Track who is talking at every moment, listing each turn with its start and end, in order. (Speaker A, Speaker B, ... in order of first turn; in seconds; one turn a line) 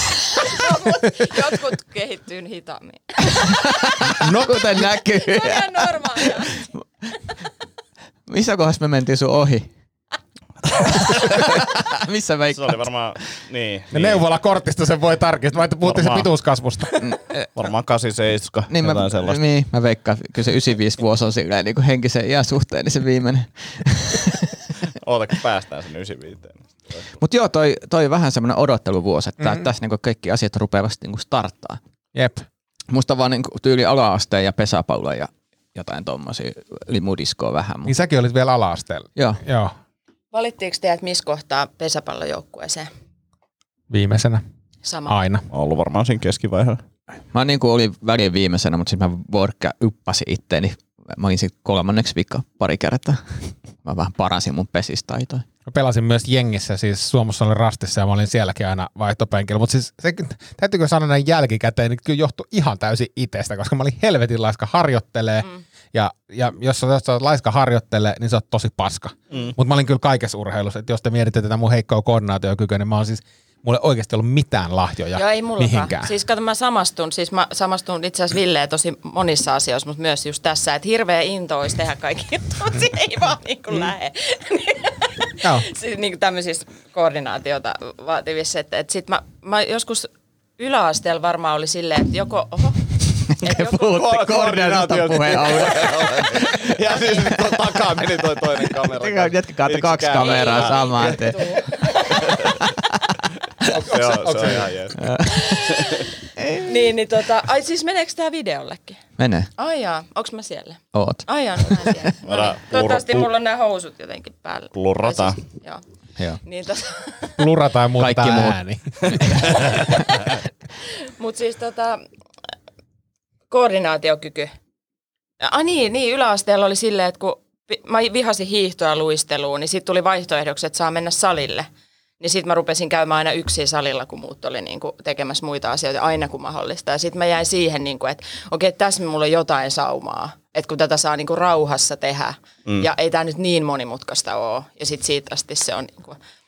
Speaker A: 0.4-3.7
Speaker B: 3.9-5.8
Speaker C: 4.2-4.8
Speaker A: 5.2-6.6
Speaker B: 8.3-9.7
Speaker B: 11.0-12.9
Speaker D: 12.5-14.2
Speaker C: 13.9-16.9
Speaker D: 15.8-16.3
Speaker B: 17.0-17.5
Speaker D: 17.6-19.4
Speaker B: 18.7-24.7
Speaker D: 25.0-27.1
Speaker B: 27.2-31.8
Speaker C: 32.1-32.4
Speaker B: 32.9-37.9
Speaker C: 37.9-39.7
Speaker A: 40.3-42.9
Speaker C: 43.9-44.4
Speaker A: 44.8-45.1
Speaker C: 45.1-45.5
Speaker D: 45.5-46.8
Speaker B: 47.3-55.5
Speaker C: 55.7-76.1
Speaker A: 75.2-94.0
Speaker B: 93.4-96.7
Speaker D: 93.8-101.2
Speaker B: 97.2-97.5
Speaker B: 98.8-101.6
Speaker A: 100.2-102.3
Speaker D: 102.2-102.5
Speaker D: 103.6-105.9
Speaker B: 104.2-105.5
Speaker A: 105.3-106.1
Speaker B: 106.4-106.7
Speaker A: 106.6-109.0
Speaker B: 109.2-109.5
Speaker A: 109.6-115.8
Speaker B: 110.9-111.9
Speaker D: 112.2-113.3
Speaker D: 114.7-115.4
Speaker A: 116.4-117.4
Speaker C: 117.4-119.2
Speaker B: 118.0-118.6
Speaker A: 121.2-122.0
Speaker A: 123.5-124.5
Speaker A: 125.4-131.7
Speaker A: 132.2-146.2